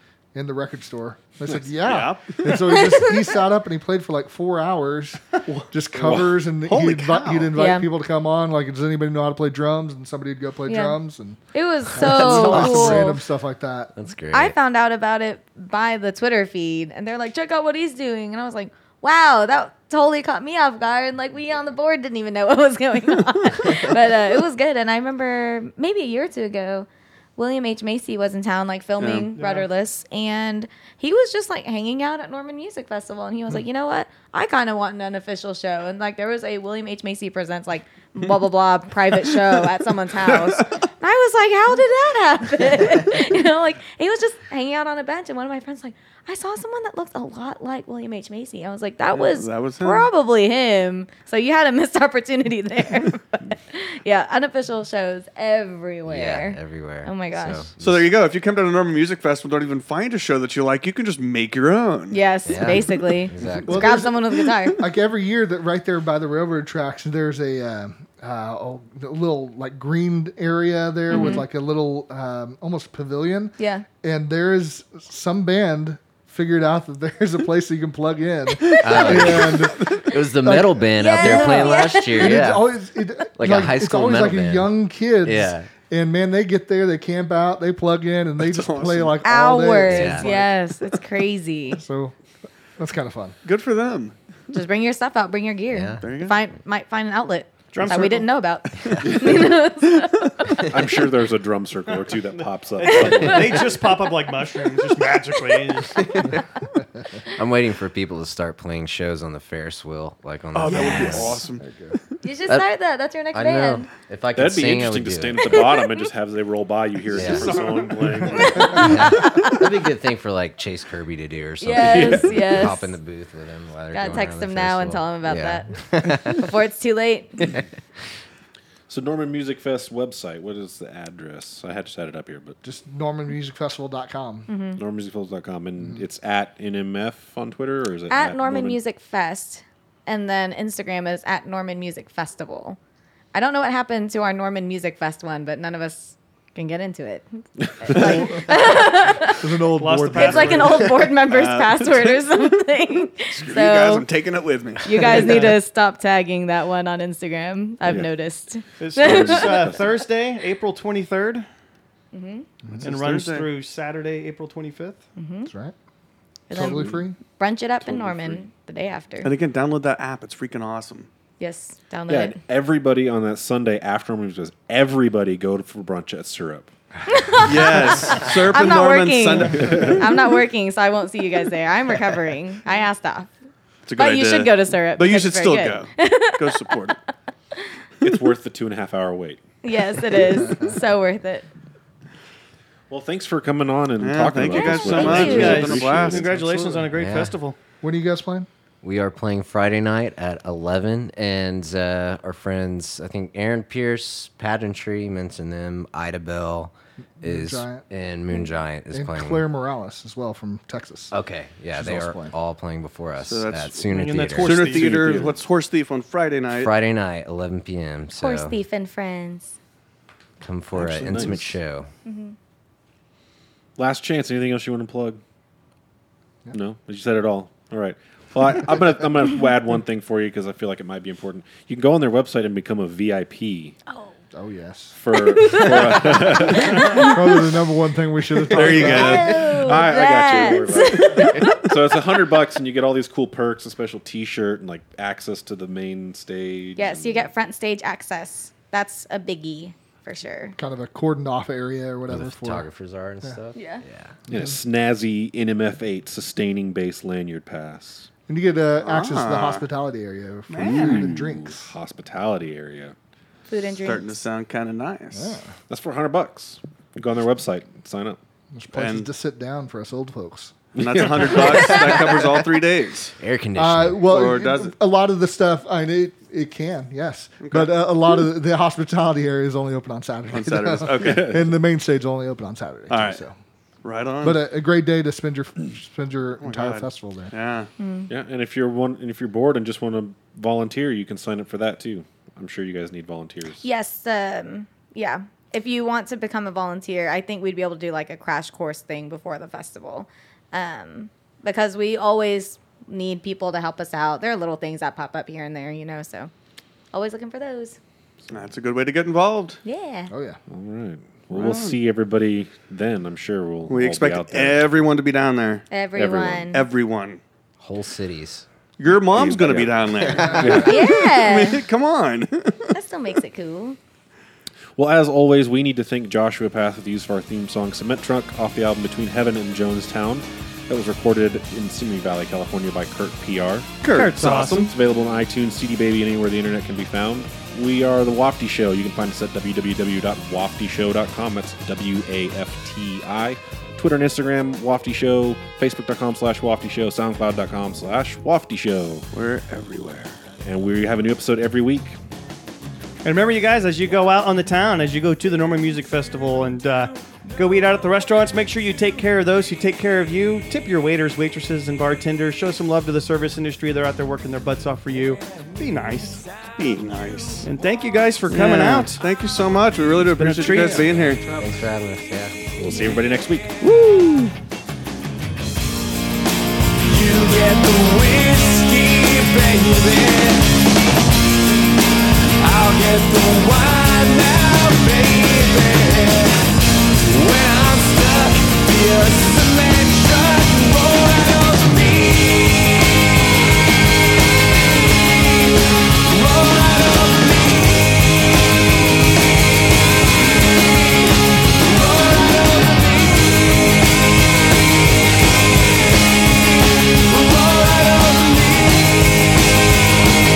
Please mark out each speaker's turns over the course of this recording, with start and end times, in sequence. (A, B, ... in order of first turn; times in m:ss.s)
0:00.3-0:11.4 A
0:01.8-0:02.5 B
0:02.7-0:03.1 C
0:06.0-0:06.4 D
0:06.6-0:07.5 B
0:07.6-0:07.9 C
0:10.7-0:11.0 C
0:11.5-0:13.2 C
0:11.9-0:13.9 A
0:12.0-0:13.1 E
0:14.0-0:14.6 E
0:14.3-0:57.6 C
0:29.0-0:29.3 B
0:29.3-0:29.7 F
0:49.1-0:50.1 B
0:56.1-0:58.1 E
0:57.8-1:02.2 B
1:02.1-1:04.8 C
1:02.5-1:04.0 E
1:03.6-1:19.9 A
1:11.1-1:11.5 C
1:13.6-1:13.9 C
1:18.7-1:19.1 B
1:18.8-1:22.7 E
1:20.4-1:30.5 A
1:21.0-1:22.4 C
1:23.4-1:24.7 E
1:25.2-1:25.7 E
1:28.4-1:29.2 B
1:29.2-1:31.8 C
1:29.9-1:30.3 E
1:31.7-1:32.1 A
1:32.8-1:33.4 A
1:33.4-1:34.1 B
1:34.5-1:40.5 C
1:35.7-1:36.0 E
1:36.0-1:36.4 B
1:37.7-1:38.3 F
1:39.0-1:40.0 D
1:40.7-1:43.7 D
1:41.9-1:46.1 F
1:42.9-1:43.4 C
1:47.3-1:51.4 E
1:50.5-1:51.6 B
1:50.6-1:51.4 F
1:51.6-1:52.0 A
1:52.2-1:53.9 C
1:53.3-1:55.7 E
1:54.4-1:59.2 D
1:57.1-1:58.7 F
1:57.1-1:57.7 E
1:58.7-2:06.4 E
2:01.6-2:02.9 C
2:01.7-2:02.6 D
2:03.9-2:07.4 C
2:08.9-2:12.6 D
2:12.6-2:14.5 A
2:14.5-2:14.8 C
2:14.8-2:18.8 D
2:18.1-2:22.8 C
2:23.3-2:27.3 C
2:27.8-2:29.5 C
2:29.2-2:30.9 A
2:29.8-2:30.9 F
2:30.1-2:34.1 C
2:31.3-2:32.5 B
2:33.3-2:35.4 B
2:34.8-2:39.8 C
2:35.1-2:35.6 F
2:38.8-2:41.4 F
2:39.0-2:39.9 D
2:42.1-2:42.5 C
2:42.8-2:43.5 B
2:42.8-2:45.0 F
2:45.2-2:45.5 C
2:45.5-2:45.7 A
2:46.5-2:49.3 C
2:46.5-2:47.2 A
2:46.6-2:47.0 D
2:47.9-2:48.4 D
2:49.2-2:51.1 B
2:51.4-2:52.4 C
2:52.1-2:56.7 D
2:57.1-3:03.3 C
2:57.4-3:00.1 B
3:03.9-3:07.0 B
3:04.0-3:06.8 C
3:08.0-3:09.4 D
3:09.6-3:11.5 C
3:12.9-3:16.6 D
3:14.0-3:16.3 B
3:14.5-3:15.7 C
3:15.1-3:17.6 F
3:16.4-3:16.8 A
3:16.9-3:17.4 E
3:17.8-3:18.5 A
3:18.8-3:29.4 E
3:27.2-3:27.8 A
3:28.9-3:31.1 A
3:31.1-3:34.8 E
3:31.7-3:32.3 A
3:33.2-3:33.8 B
3:33.9-3:35.3 F
3:34.4-3:36.7 B
3:34.7-3:35.4 D
3:36.5-3:38.6 E
3:38.2-3:39.6 C
3:40.4-3:41.9 E
3:40.8-3:41.4 B
3:40.9-3:41.4 D
3:42.0-3:42.4 C
3:43.8-3:45.2 D
3:46.5-3:53.8 D
3:53.9-3:54.1 C
3:54.3-3:55.0 A
3:55.0-3:57.0 D
3:55.2-3:57.1 C
3:56.8-3:59.4 A
3:58.5-3:59.3 B
3:58.6-4:01.6 C
3:59.4-4:07.3 D
4:06.8-4:10.6 C
4:10.6-4:12.7 A
4:12.1-4:14.2 E
4:13.6-4:13.8 C
4:14.3-4:14.6 A
4:14.3-4:18.1 D
4:18.3-4:21.7 A
4:18.8-4:19.6 B
4:20.5-4:21.1 F
4:20.6-4:23.0 D
4:23.5-4:24.1 C
4:23.8-4:25.4 B
4:25.1-4:25.5 A
4:25.7-4:28.2 D
4:28.5-4:32.0 A
4:28.7-4:29.1 B
4:30.8-4:33.1 B
4:30.8-4:31.1 D
4:33.2-4:34.2 E
4:33.6-4:43.4 A
4:34.1-4:34.7 B
4:37.4-4:37.7 B
4:40.3-4:41.4 B
4:42.9-4:43.2 B
4:43.8-4:44.4 B
4:44.2-4:47.3 A
4:46.4-4:47.7 B
4:47.8-4:48.1 C
4:48.1-4:53.6 D
4:53.6-5:06.3 C
5:06.9-5:07.8 C
5:08.3-5:09.6 B
5:09.6-5:10.1 C
5:10.1-5:10.4 A
5:10.5-5:14.7 D
5:11.3-5:11.8 B
5:13.7-5:15.7 B
5:15.7-5:16.6 C
5:16.0-5:16.5 D
5:16.5-5:17.2 B
5:17.6-5:18.4 E
5:18.8-5:22.7 B
5:19.1-5:20.9 D
5:20.6-5:21.6 C
5:22.7-5:23.8 C
5:24.8-5:33.8 D
5:33.8-5:34.7 B
5:33.9-5:34.7 F
5:34.4-5:49.0 D
5:49.1-5:50.1 B
5:50.4-5:52.0 D
5:53.0-6:06.2 F
6:06.6-6:07.5 B
6:07.4-6:09.0 F
6:08.3-6:11.2 B
6:10.1-6:10.9 F
6:11.4-6:12.9 E
6:12.6-6:13.5 D
6:16.8-6:20.5 G
6:22.4-6:33.0 G
6:34.7-6:38.2 G
6:40.5-6:43.7 G
6:46.1-6:49.4 G